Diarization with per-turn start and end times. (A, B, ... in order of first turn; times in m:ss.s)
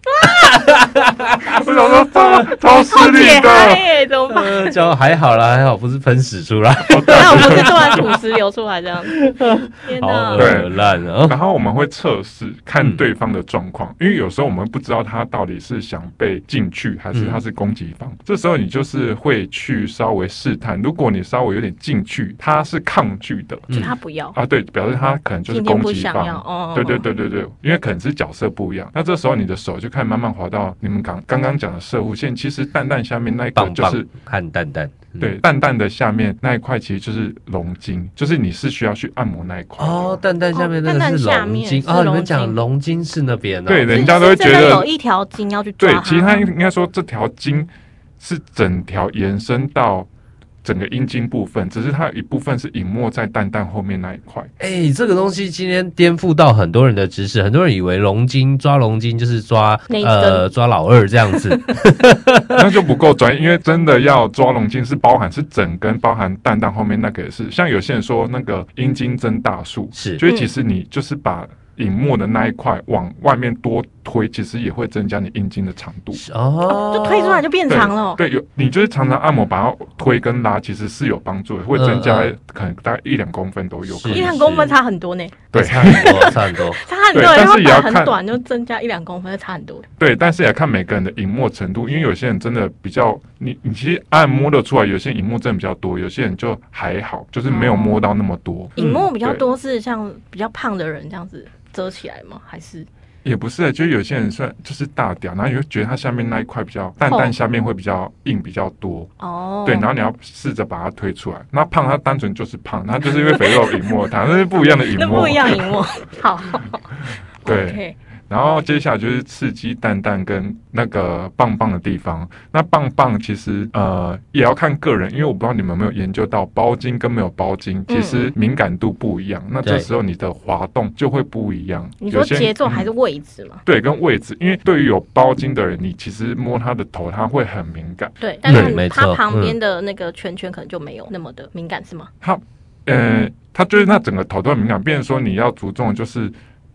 0:00.1-0:00.6 A
0:00.2-0:01.6 B
0:01.5-0:03.9 C
0:01.5-0:04.8 A
0:04.3-0:08.2 B
0:06.9-0:08.1 C
0:07.1-0:09.2 A
0:09.0-0:11.4 B
0:09.8-0:10.5 A
0:10.4-0:10.7 C
0:11.2-0:23.7 C
0:17.1-0:17.4 B
0:23.7-0:24.4 A
0:24.3-0:34.1 C
0:25.5-0:27.0 A
0:33.5-0:35.4 B
0:35.2-0:40.2 C
0:39.8-0:44.2 B
0:40.5-0:42.6 A
0:43.7-0:44.9 C
0:43.9-0:46.5 A
0:45.8-0:50.1 C
0:50.6-0:54.5 C
0:54.6-1:02.6 B
0:59.9-1:00.4 A
1:02.5-1:16.2 C
1:09.9-1:10.2 B
1:10.2-1:10.5 A
1:16.1-1:17.4 B
1:16.7-1:18.2 A
1:17.7-1:24.4 C
1:21.7-1:22.3 B
1:23.9-1:24.7 B
1:24.1-1:29.8 A
1:25.5-1:26.3 C
1:25.5-1:26.8 B
1:27.1-1:28.2 C
1:30.0-1:39.4 C
1:37.5-1:38.1 A
1:38.8-1:42.9 A
1:38.8-1:39.1 B
1:43.2-1:49.1 C
1:47.1-1:47.3 A
1:49.2-1:49.9 A
1:49.6-1:55.8 C
1:53.3-1:53.7 A
1:54.9-1:56.8 A
1:57.4-1:57.9 A
1:57.4-2:12.9 C
2:07.9-2:08.3 A
2:09.6-2:09.9 B
2:12.0-2:13.6 A
2:13.6-2:18.8 C
2:18.2-2:22.1 A
2:18.5-2:19.6 B
2:22.2-2:26.3 C